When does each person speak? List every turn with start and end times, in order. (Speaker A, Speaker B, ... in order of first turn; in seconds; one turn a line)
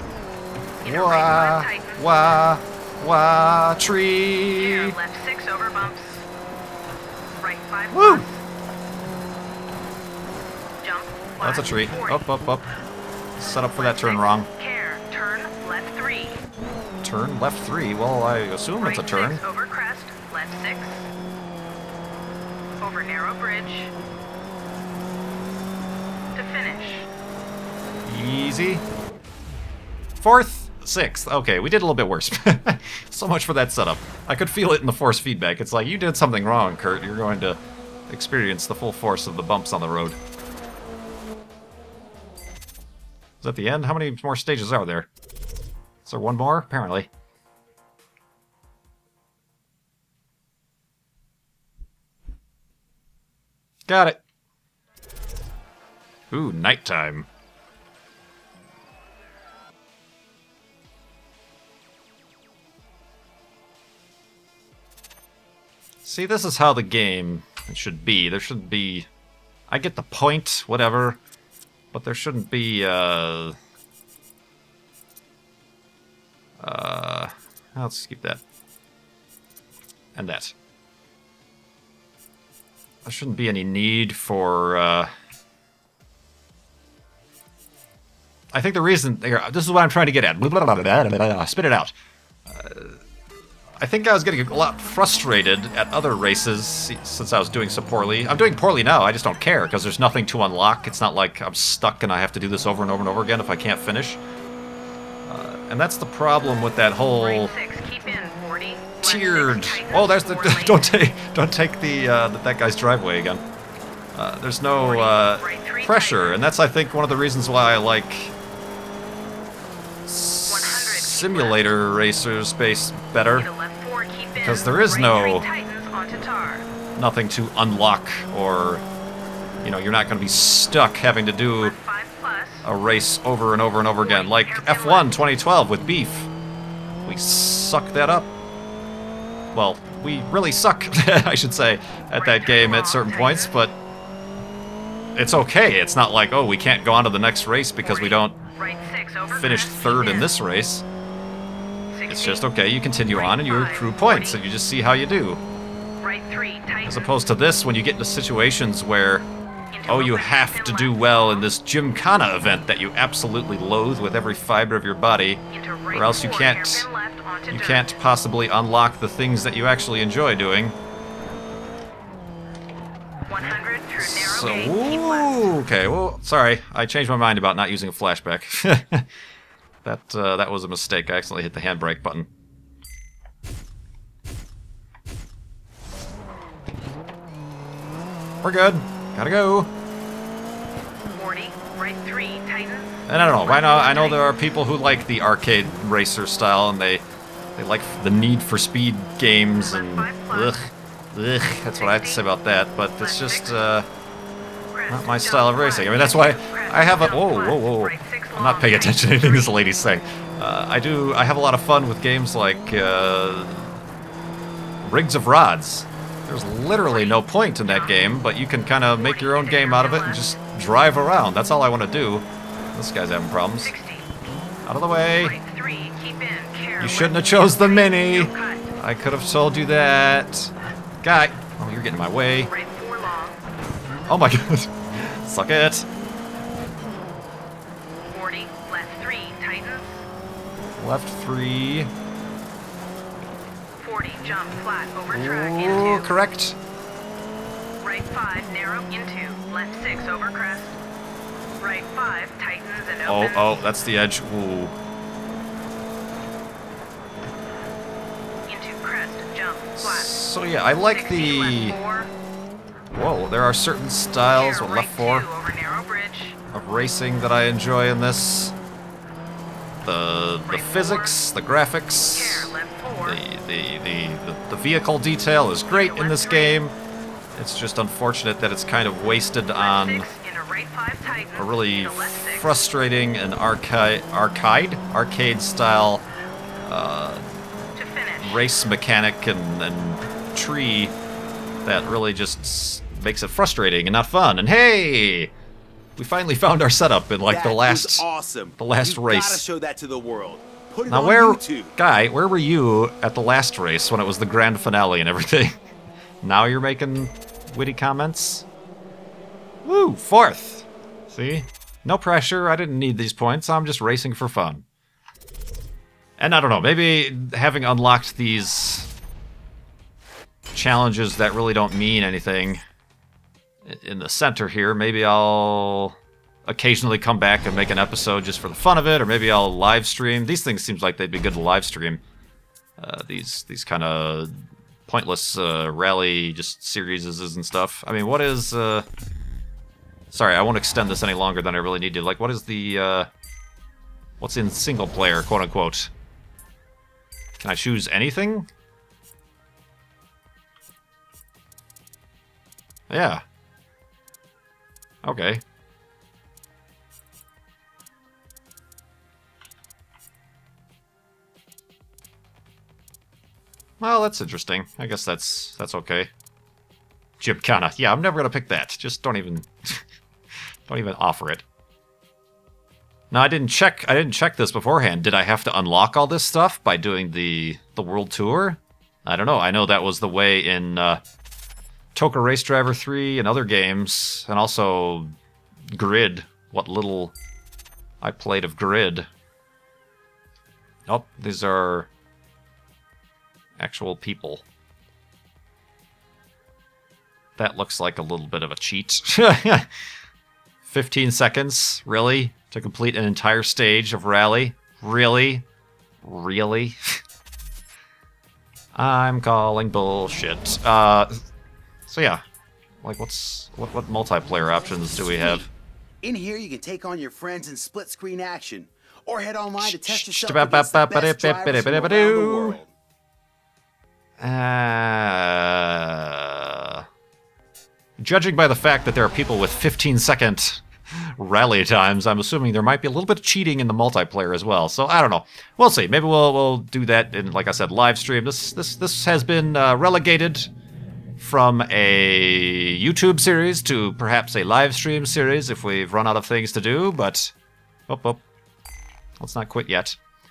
Speaker A: 0.8-5.0
Speaker B: 0.8-2.4
Speaker B: 4.5-6.2
Speaker B: 7.4-8.4
Speaker A: 7.9-8.3
Speaker B: 10.8-12.3
Speaker A: 11.4-12.7
Speaker A: 13.4-14.5
Speaker B: 13.7-16.4
Speaker A: 17.0-19.4
Speaker B: 18.8-21.1
Speaker B: 22.8-23.9
Speaker B: 26.3-27.1
Speaker A: 28.1-28.8
Speaker A: 30.2-37.6
Speaker A: 38.1-40.2
Speaker A: 43.4-45.1
Speaker A: 46.0-47.1
Speaker A: 53.9-54.2
Speaker A: 56.3-57.3
Speaker A: 66.0-69.1
Speaker A: 69.7-71.2
Speaker A: 71.9-73.5
Speaker A: 76.6-78.4
Speaker A: 80.2-80.5
Speaker A: 83.0-85.1
Speaker A: 88.5-91.9
Speaker A: 92.5-93.0
Speaker A: 93.8-104.2
Speaker A: 105.2-107.5
Speaker B: 107.2-110.9
Speaker A: 109.0-113.4
Speaker A: 114.1-118.3
Speaker B: 114.7-116.4
Speaker A: 120.0-123.5
Speaker B: 120.5-121.7
Speaker B: 123.3-126.7
Speaker A: 124.4-125.5
Speaker A: 127.0-128.8
Speaker A: 129.6-131.8
Speaker B: 131.6-132.7
Speaker A: 132.6-136.3
Speaker B: 133.8-135.2
Speaker A: 137.0-138.3
Speaker A: 139.5-143.7
Speaker B: 142.1-143.7
Speaker A: 145.1-148.4
Speaker B: 147.8-150.3
Speaker A: 149.3-150.8
Speaker B: 151.9-152.4
Speaker A: 152.1-155.4
Speaker B: 153.1-154.4
Speaker B: 156.0-157.1
Speaker A: 156.8-159.3
Speaker B: 159.7-161.5
Speaker A: 159.9-166.9
Speaker B: 165.5-168.0
Speaker A: 167.5-170.8
Speaker B: 173.3-175.5
Speaker A: 174.0-179.1
Speaker A: 179.8-182.3
Speaker A: 188.4-189.7
Speaker B: 191.1-194.4
Speaker A: 193.1-197.0
Speaker A: 197.6-203.9
Speaker B: 199.6-200.7
Speaker B: 201.4-202.2
Speaker B: 203.0-203.7
Speaker B: 204.7-209.6
Speaker A: 204.9-213.8
Speaker A: 214.8-223.7
Speaker B: 216.8-218.0
Speaker B: 218.9-220.4
Speaker B: 223.6-224.1
Speaker A: 224.6-225.3
Speaker B: 225.2-228.7
Speaker A: 226.8-232.5
Speaker B: 232.4-233.4
Speaker A: 234.1-235.9
Speaker B: 238.1-240.1
Speaker A: 240.8-241.9
Speaker B: 243.8-246.1
Speaker A: 245.1-246.6
Speaker B: 247.8-250.8
Speaker B: 251.6-253.7
Speaker A: 253.1-254.7
Speaker B: 258.4-260.2
Speaker A: 259.8-261.8
Speaker B: 260.9-262.1
Speaker A: 262.9-265.3
Speaker B: 264.3-266.4
Speaker A: 266.5-268.5
Speaker A: 269.8-276.7
Speaker B: 270.5-271.2
Speaker B: 272.1-273.2
Speaker B: 275.7-276.6
Speaker A: 277.3-280.1
Speaker B: 279.6-282.6
Speaker A: 281.4-286.0
Speaker A: 286.6-287.2
Speaker B: 287.8-288.6
Speaker A: 288.2-290.9
Speaker A: 291.6-295.3
Speaker A: 296.0-298.1
Speaker C: 297.3-301.7
Speaker A: 298.6-299.5
Speaker A: 300.9-305.5
Speaker A: 306.2-308.4
Speaker A: 309.6-314.6
Speaker A: 316.2-318.9
Speaker A: 320.5-322.6
Speaker A: 323.6-332.0
Speaker A: 332.8-338.9
Speaker A: 340.1-343.1
Speaker A: 344.2-345.9
Speaker A: 347.4-348.5
Speaker A: 352.9-353.2
Speaker A: 355.0-355.4
Speaker A: 363.8-366.1
Speaker A: 367.2-369.8
Speaker A: 370.7-371.4
Speaker A: 373.1-381.0
Speaker A: 381.9-385.1
Speaker A: 385.7-387.1
Speaker A: 388.0-389.1
Speaker A: 390.9-391.9
Speaker A: 393.6-394.4
Speaker A: 397.4-399.7
Speaker A: 400.6-405.4
Speaker A: 406.0-407.0
Speaker A: 408.7-411.2
Speaker A: 411.9-412.2
Speaker A: 412.8-415.5
Speaker C: 414.8-415.5
Speaker C: 416.0-422.7
Speaker A: 419.6-422.6
Speaker A: 424.2-426.8
Speaker A: 428.0-440.5
Speaker A: 441.2-447.3
Speaker A: 447.9-448.2
Speaker A: 449.2-450.0